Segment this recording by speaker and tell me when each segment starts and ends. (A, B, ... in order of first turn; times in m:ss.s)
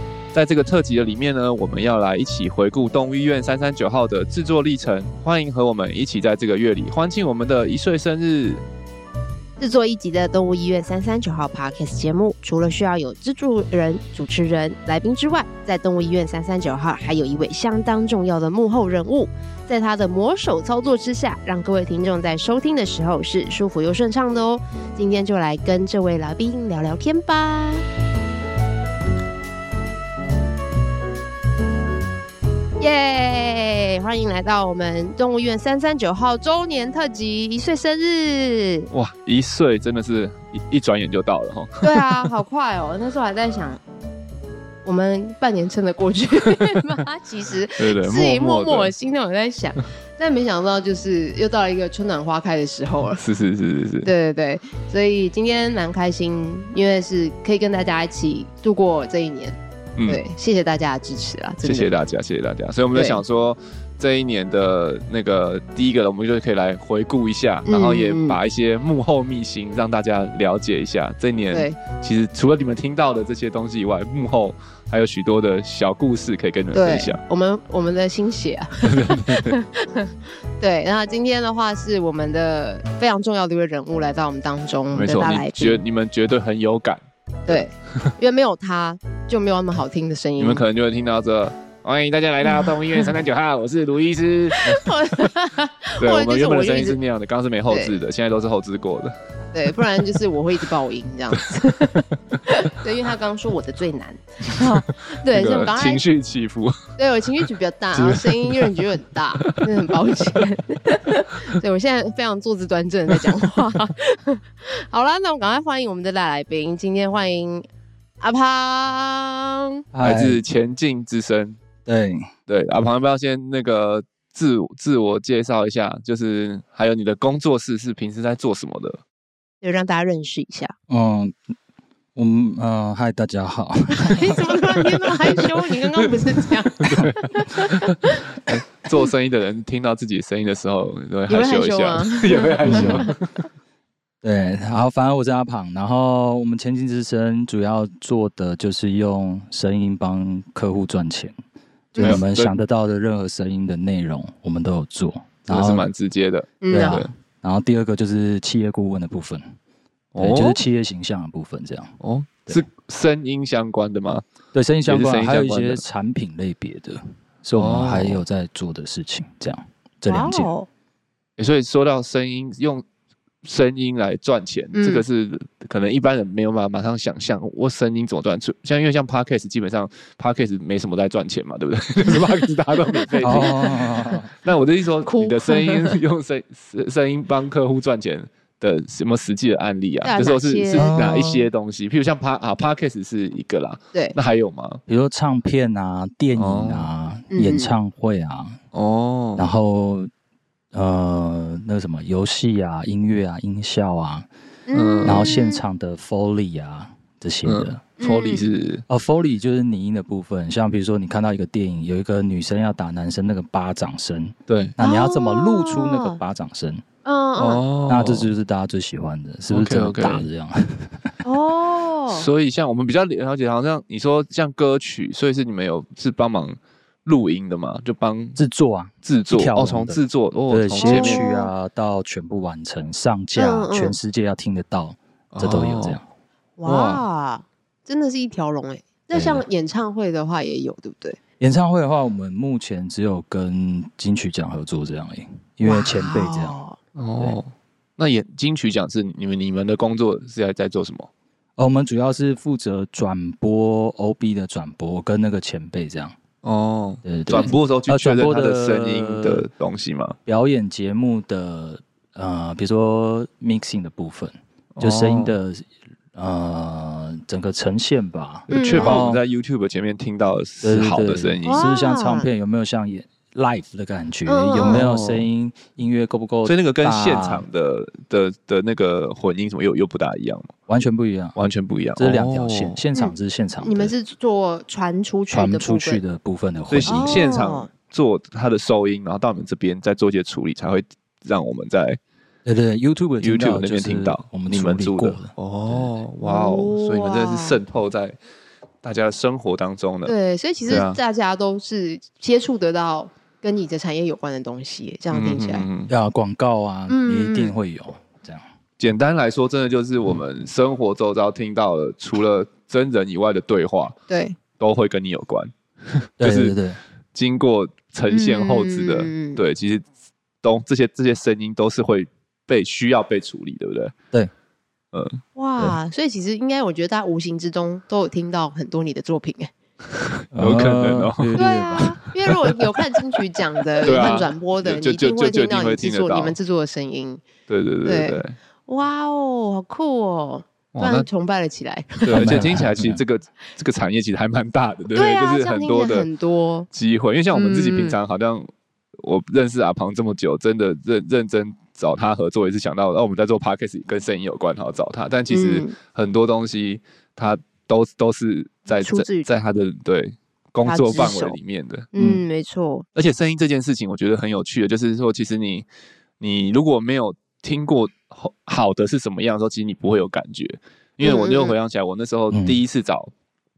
0:00.3-0:08.6 A
0:09.6-0:27.8 B
0:32.8-0:38.9 B
0:38.9-0:42.3 A
0:41.8-0:43.8 B
0:44.8-0:53.2 B
0:47.8-0:48.9 A
0:53.2-0:54.1 A
0:54.0-0:59.6 B
1:00.0-1:00.2 A
1:00.1-1:01.9 B
1:01.6-1:17.2 A
1:02.9-1:03.2 B
1:07.6-1:08.4 B
1:11.5-1:11.8 B
1:16.7-1:25.8 B
1:18.8-1:19.6 A
1:24.9-1:27.6 A
1:27.5-1:30.6 B
1:30.4-1:34.9 A
1:32.4-1:33.1 B
1:34.5-1:37.0 B
1:36.0-1:39.1 A
1:37.7-1:38.0 B
1:39.5-1:46.0 B
1:41.3-1:42.0 A
1:45.3-1:46.8 A
1:47.0-1:57.6 B
1:47.9-1:48.8 A
1:49.4-1:49.7 A
1:58.2-1:59.8 B
1:59.9-2:00.4 C
2:00.0-2:01.6 A
2:01.8-2:02.3 C
2:02.5-2:09.0 A
2:09.6-2:10.7 B
2:10.9-2:11.4 C
2:12.1-2:14.8 C
2:13.9-2:18.2 B
2:16.8-2:23.4 A
2:21.3-2:23.1 B
2:22.6-2:23.1 C
2:24.2-2:31.4 C
2:31.9-2:32.2 B
2:32.0-2:32.5 A
2:32.0-2:35.9 C
2:35.5-2:37.1 A
2:36.6-2:37.1 B
2:36.7-2:39.5 C
2:40.1-2:40.6 A
2:40.2-2:42.6 C
2:42.0-2:44.2 A
2:44.5-2:50.5 C
2:44.8-2:45.8 A
2:47.6-2:48.2 A
2:50.1-2:50.7 B
2:51.4-2:52.8 A
2:53.4-3:03.7 A
2:54.7-2:55.0 B
3:02.1-3:02.3 C
3:02.9-3:03.7 B
3:03.2-3:04.3 C
3:04.4-3:14.8 A
3:05.0-3:06.0 B
3:10.0-3:11.2 B
3:10.7-3:11.4 C
3:14.9-3:18.6 C
3:16.3-3:16.9 A
3:17.3-3:17.7 B
3:18.7-3:19.5 A
3:19.4-3:20.1 C
3:20.7-3:24.3 C
3:24.7-3:25.6 B
3:24.7-3:25.3 A
3:25.0-3:27.8 C
3:27.4-3:28.8 A
3:28.0-3:28.4 B
3:28.9-3:36.8 C
3:34.5-3:34.7 A
3:34.8-3:36.2 B
3:37.0-3:37.6 B
3:37.4-3:38.3 A
3:37.9-3:41.1 C
3:39.5-3:40.2 A
3:41.2-3:42.3 B
3:42.1-3:48.4 A
3:48.4-3:56.0 C
3:49.0-3:51.2 A
3:50.8-3:51.5 B
3:53.4-3:54.0 B
3:55.3-3:56.0 A
3:56.6-4:01.2 B
3:56.6-3:57.0 A
3:59.1-3:59.4 C
4:01.4-4:06.6 C
4:05.6-4:06.8 B
4:06.9-4:11.1 A
4:11.6-4:16.1 C
4:16.4-4:20.2 A
4:17.0-4:19.4 C
4:20.2-4:29.2 C
4:24.8-4:25.3 A
4:28.5-4:29.0 B
4:28.5-4:31.7 A
4:30.6-4:37.4 C
4:31.4-4:32.3 B
4:34.2-4:34.8 B
4:34.6-4:35.3 A
4:36.4-4:40.5 A
4:40.7-4:41.4 C
4:41.4-4:42.8 A
4:42.0-4:43.9 C
4:42.9-4:46.0 B
4:45.3-4:47.4 C
4:46.7-4:52.0 A
4:46.8-4:47.7 B
4:52.4-4:55.9 C
4:53.2-4:58.2 A
4:56.2-4:57.6 B
4:58.8-5:00.1 A
5:00.0-5:05.6 B
5:00.7-5:01.0 A
5:05.1-5:05.9 A
5:05.9-5:08.4 C
5:06.9-5:07.5 B
5:08.8-5:14.0 A
5:14.1-5:14.4 B
5:14.6-5:16.6 A
5:16.2-5:16.8 C
5:17.1-5:19.8 A
5:18.1-5:19.4 B
5:20.4-5:23.9 A
5:24.9-5:25.2 A
5:25.4-5:29.5 B
5:30.2-5:32.8 A
5:30.3-5:32.0 C
5:31.4-5:37.2 B
5:33.8-5:36.4 A
5:37.5-5:38.4 A
5:37.8-5:42.4 B
5:40.7-5:41.1 A
5:42.0-5:46.1 A
5:42.1-5:43.0 C
5:44.9-5:46.7 B
5:46.7-6:01.9 A
5:47.3-5:48.0 B
5:55.3-5:55.7 B
5:58.7-5:59.3 B
6:00.6-6:01.4 B
6:01.9-6:02.8 B
6:02.0-6:02.2 C
6:02.9-6:05.6 A
6:06.2-6:13.1 A
6:11.0-6:11.6 B
6:12.3-6:12.6 C